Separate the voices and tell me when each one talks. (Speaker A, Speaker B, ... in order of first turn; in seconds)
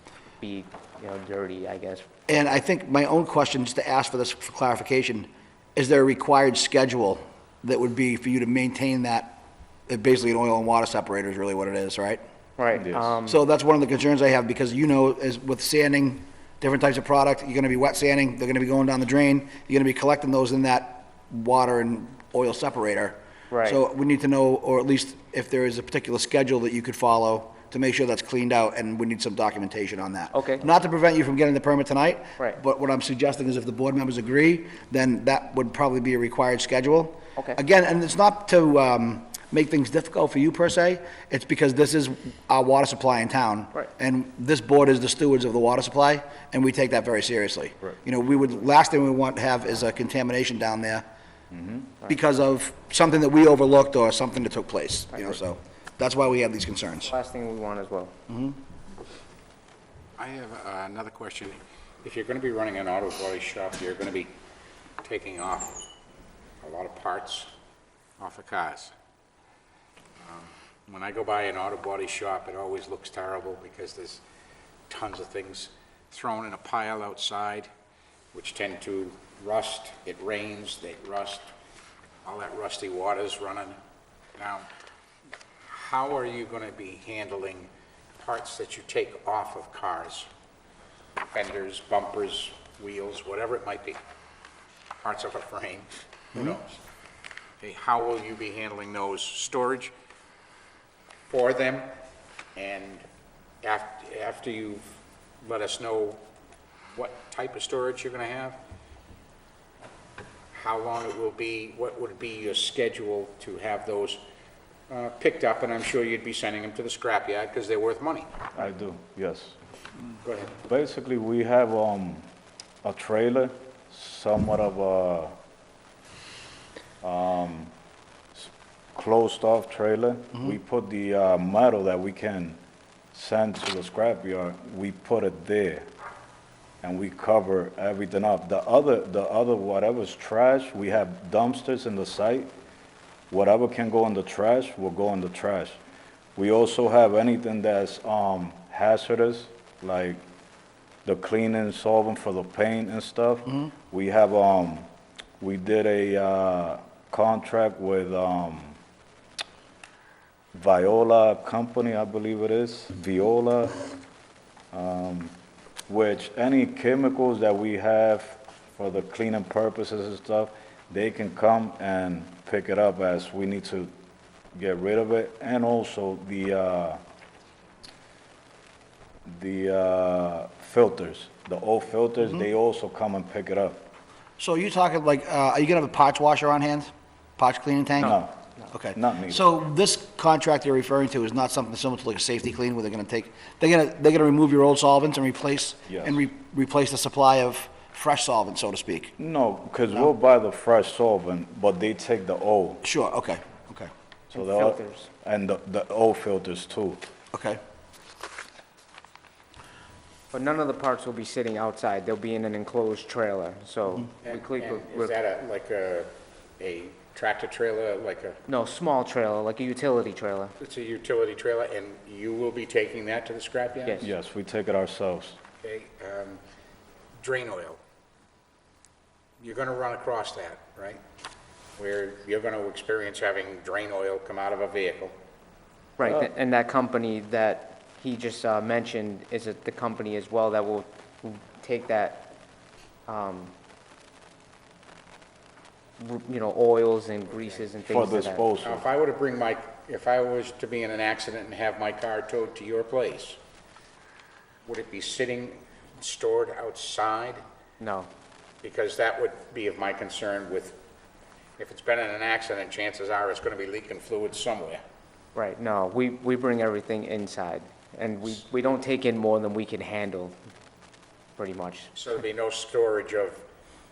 Speaker A: 0.4-2.1, 12.6-13.4, 23.5-23.8, 30.3-30.7, 57.0-58.1, 204.3-205.1, 210.3-215.1, 218.5-220.6, 236.0-242.3, 243.1-243.5, 246.0-248.4, 257.8-258.1, 265.4-270.4, 271.4-271.9
Speaker B: 2.3-12.2, 13.3-51.0, 52.1-57.1, 58.3-58.6, 184.4-188.2, 188.7-199.1, 202.8-203.9, 207.3-207.6
Speaker C: 12.8-13.2, 51.5-51.9, 118.5-119.5, 120.7-122.2, 122.8-125.3, 127.0-127.7, 128.3-132.6, 133.1-135.9, 136.8-142.5, 143.3-145.8, 146.4-150.2, 151.1-154.9, 155.4-158.8, 160.6-163.8, 164.7-165.3, 165.9-173.9, 174.6-177.0, 179.3-183.9, 188.0-188.4, 188.9-189.5, 195.9-196.2, 199.2-202.8, 204.3-207.0, 224.0-225.4, 247.9-248.8
Speaker D: 60.2-64.3, 65.0-65.8, 66.6-67.5, 68.2-68.9, 70.2-74.2, 74.9-77.7, 78.3-81.5, 82.2-83.8, 84.4-84.7, 85.6-90.3, 91.3-94.0, 95.0-96.8, 97.6-99.9, 101.3-102.0, 102.5-103.1, 103.6-104.9, 105.4-106.2, 106.9-108.6, 110.5-114.2, 114.9-118.4, 120.2-120.6, 214.2-218.4, 220.6-224.1, 225.6-226.4, 227.2-227.8, 229.4-231.0, 231.8-235.2, 248.6-253.4, 254.7-257.4, 258.6-260.8, 261.6-264.8, 271.9-273.4